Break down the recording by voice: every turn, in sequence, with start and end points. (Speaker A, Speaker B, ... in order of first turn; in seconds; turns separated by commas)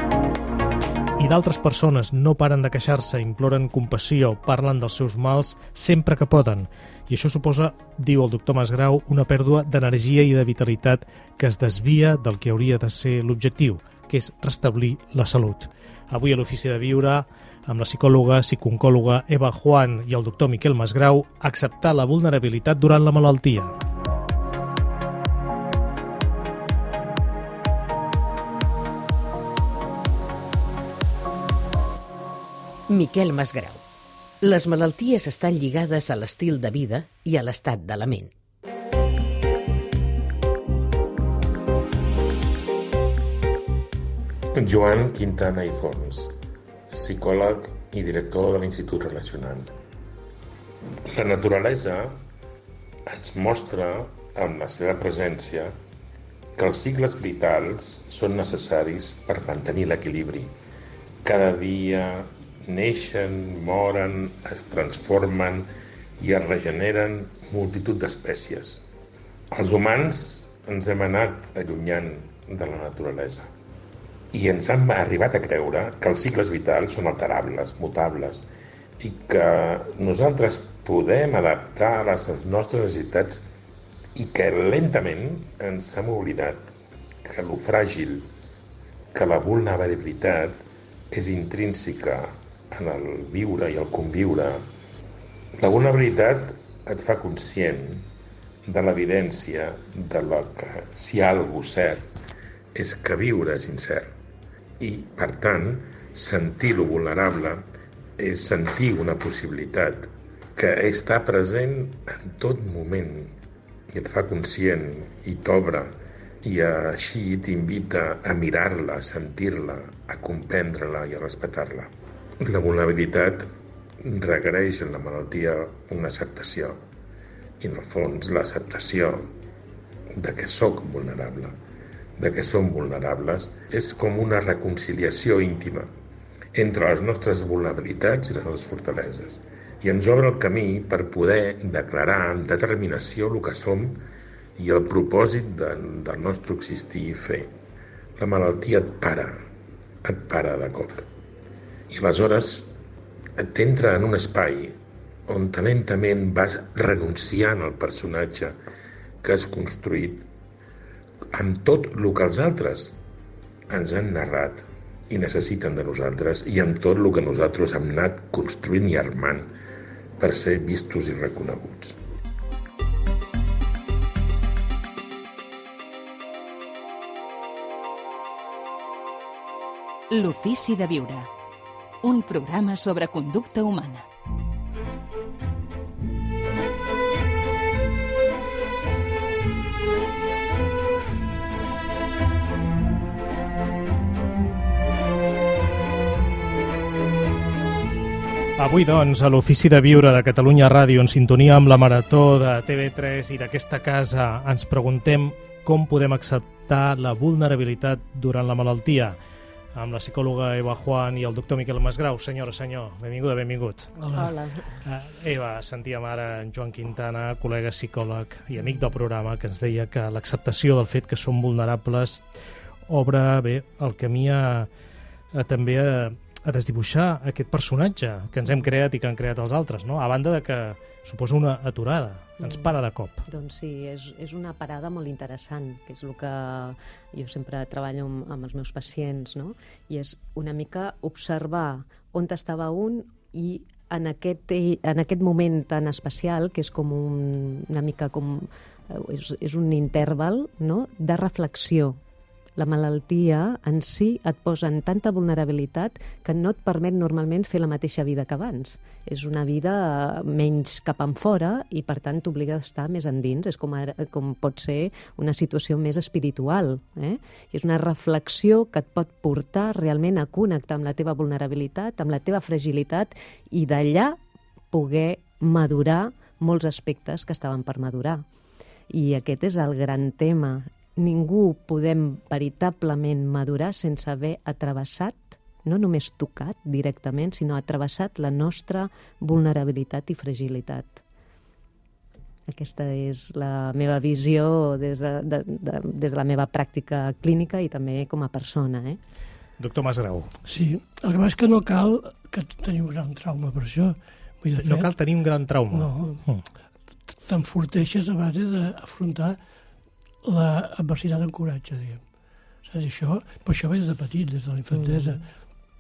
Speaker A: 1.2-23.7, Speaker B: 32.9-33.8, Speaker B: 34.4-38.3, Speaker C: 44.5-46.3, Speaker C: 46.9-49.8, Speaker C: 51.0-52.2, Speaker C: 53.1-55.8, Speaker C: 56.6-60.5, Speaker C: 61.2-65.7, Speaker C: 66.2-68.8, Speaker C: 69.5-73.5, Speaker C: 74.3-78.5, Speaker C: 79.0-83.5, Speaker C: 84.2-88.3, Speaker C: 89.1-94.7, Speaker C: 95.6-98.1, Speaker C: 98.7-102.1, Speaker C: 102.8-104.1, Speaker C: 104.8-107.6, Speaker C: 108.2-113.4, Speaker C: 113.9-123.5, Speaker C: 124.0-126.8, Speaker C: 127.6-129.3, Speaker C: 130.2-131.6, Speaker C: 132.2-135.9, Speaker C: 136.6-144.0, Speaker C: 144.6-147.5, Speaker C: 148.2-149.4, Speaker C: 150.0-151.1, Speaker C: 151.9-152.7, Speaker C: 153.4-154.8, Speaker C: 155.3-158.6, Speaker C: 159.2-160.3, Speaker C: 161.3-163.0, Speaker C: 163.7-169.5, Speaker C: 170.2-172.0, Speaker D: 180.1-181.3, Speaker D: 182.0-184.0, Speaker A: 198.6-209.2, Speaker A: 209.8-214.0, Speaker E: 214.0-214.3, Speaker F: 214.1-214.7, Speaker A: 214.8-222.2, Speaker A: 222.9-224.7, Speaker A: 225.3-233.2, Speaker F: 232.4-232.7, Speaker F: 233.3-252.0, Speaker F: 252.6-274.2, Speaker F: 274.7-278.2, Speaker F: 278.9-291.0, Speaker F: 292.5-299.0, Speaker A: 299.6-300.3, Speaker E: 300.4-304.9, Speaker A: 304.6-306.4, Speaker E: 305.7-306.3, Speaker E: 307.1-309.4, Speaker E: 310.2-312.0, Speaker E: 312.6-315.3, Speaker F: 314.7-315.2